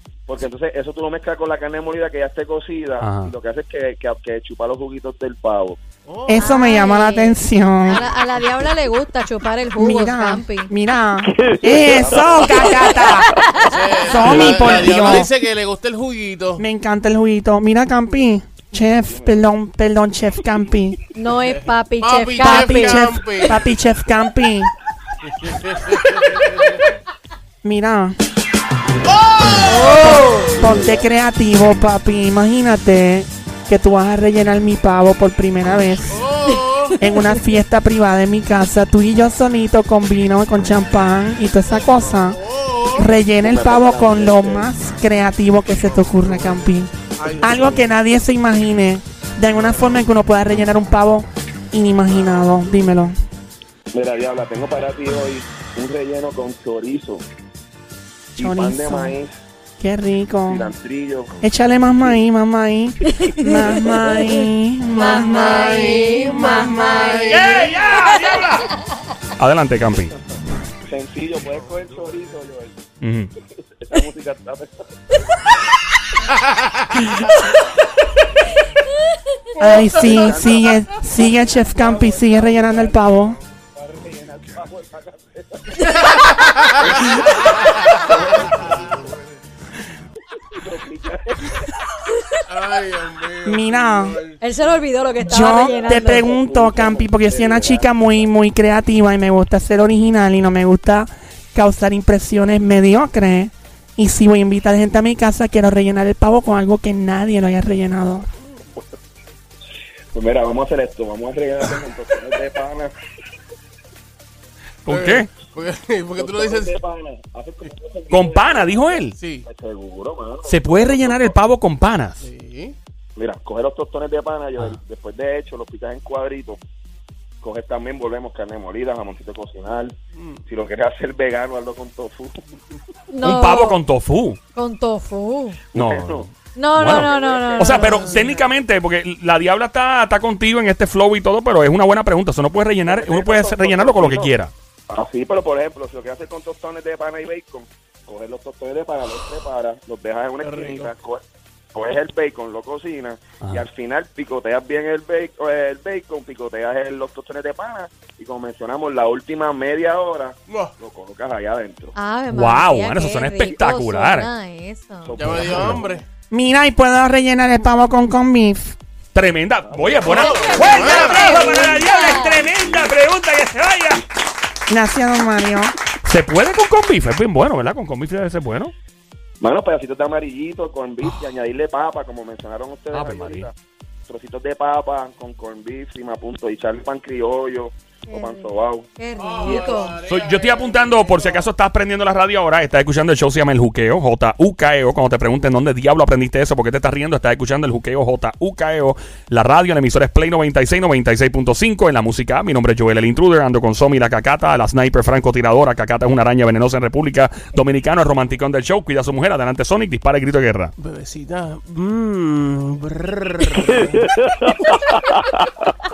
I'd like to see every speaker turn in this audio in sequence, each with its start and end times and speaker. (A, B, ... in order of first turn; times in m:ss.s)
0:00.3-0:05.8 A
0:03.0-0:03.3 B
0:06.0-0:06.6 C
0:06.3-0:08.0 D
0:06.4-0:10.7 E
0:09.8-0:13.3 D
0:11.5-0:12.9 A
0:12.5-0:14.3 E
0:13.5-0:16.6 C
0:14.0-0:15.3 D
0:16.6-0:21.0 D
0:19.0-0:19.4 A
0:21.1-0:23.5 E
0:21.4-0:23.6 C
0:22.4-0:24.7 D
0:25.2-0:26.9 C
0:27.6-0:28.1 D
0:29.0-0:30.8 C
0:29.6-0:30.5 E
0:30.0-0:36.2 D
0:36.1-0:37.0 C
0:36.5-0:37.4 E
0:37.0-0:42.4 D
0:41.8-0:43.1 C
0:42.9-0:53.1 D
0:43.3-0:44.7 A
0:47.2-0:47.9 C
0:53.9-0:57.2 A
0:58.3-0:59.3 A
0:58.4-0:59.2 D
0:59.8-1:00.7 D
1:00.5-1:01.4 A
1:01.4-1:07.3 D
1:03.1-1:08.4 E
1:05.0-1:07.8 C
1:07.3-1:08.7 B
1:09.4-1:10.1 B
1:10.8-1:12.8 A
1:13.0-1:13.3 B
1:13.8-1:14.8 A
1:16.3-1:17.2 C
1:19.6-1:23.4 D
1:19.7-1:29.0 A
1:25.8-1:29.1 C
1:30.5-1:31.7 A
1:32.5-1:34.4 C
1:33.4-1:34.2 D
1:34.4-1:36.3 E
1:35.2-1:48.3 D
1:35.4-1:38.2 A
1:50.1-1:52.9 A
1:54.8-1:55.3 B
1:54.9-1:56.7 C
1:56.2-2:01.4 A
1:58.1-1:59.2 B
1:59.2-1:59.5 C
2:00.4-2:02.3 B
2:02.2-2:02.8 C
2:03.2-2:06.6 A
2:07.4-2:12.5 A
2:10.2-2:10.4 C
2:13.1-2:13.8 E
2:13.2-2:14.4 B
2:14.5-2:15.6 E
2:15.7-2:18.4 A
2:15.7-2:24.5 B
2:16.5-2:18.2 E
2:22.8-2:24.3 A
2:24.9-2:31.2 A
2:30.4-2:30.9 C
2:31.7-2:41.9 A
2:40.5-2:40.7 C
2:41.9-2:45.1 E
2:42.3-2:44.3 B
2:45.0-2:45.9 A
2:45.2-2:46.0 C
2:45.3-2:45.8 B
2:46.3-2:48.8 D
2:49.1-2:54.0 B
2:49.6-2:52.9 A
2:50.0-2:51.7 C
2:50.1-2:52.5 E
2:54.7-2:55.7 D
2:56.0-2:58.7 B
2:59.4-3:03.5 A
3:02.9-3:03.5 B
3:04.0-3:08.9 A
3:08.1-3:10.0 E
3:09.2-3:11.5 C
3:10.0-3:30.7 B
3:30.8-3:34.1 C